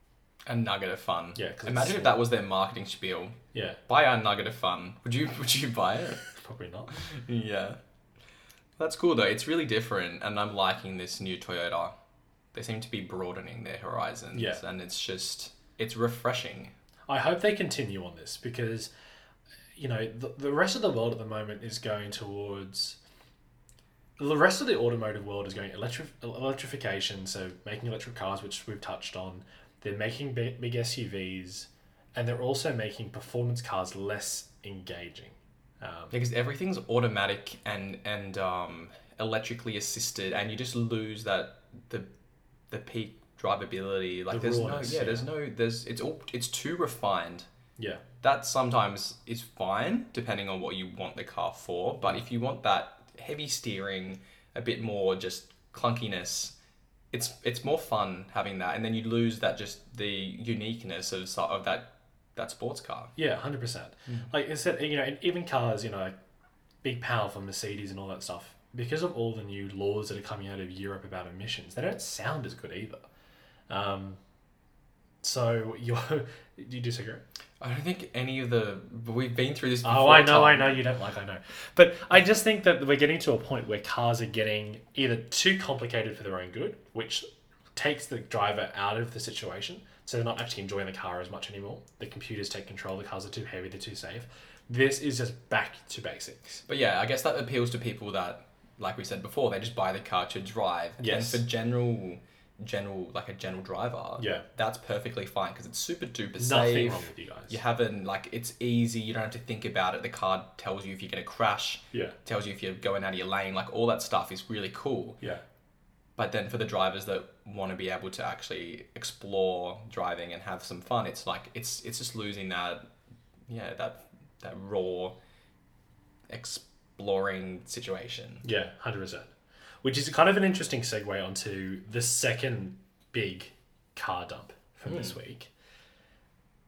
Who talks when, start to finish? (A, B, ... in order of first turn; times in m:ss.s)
0:00.5-0:03.4 A
0:01.4-0:02.2 B
0:03.5-0:03.8 B
0:03.9-0:06.2 A
0:06.3-0:06.9 B
0:07.2-0:07.8 A
0:08.8-0:11.9 A
0:12.5-0:16.7 A
0:14.3-0:14.6 B
0:17.1-0:18.9 B
0:19.8-0:23.0 B
0:24.2-0:36.1 B
0:36.1-0:42.1 A
0:42.7-0:47.4 A
0:44.3-0:45.3 B
0:48.2-0:56.5 A
0:57.1-1:03.1 A
1:03.2-1:06.1 B
1:06.8-1:13.0 B
1:13.7-1:14.2 B
1:15.2-1:17.2 B
1:17.6-1:20.8 A
1:19.8-1:36.6 B
1:36.7-1:55.2 A
1:41.0-1:41.4 B
1:44.2-1:44.4 B
1:46.4-1:47.6 B
1:56.2-2:02.8 A
2:03.5-2:05.1 A
2:06.3-2:08.4 A
2:08.4-2:09.3 B
2:09.8-2:15.5 B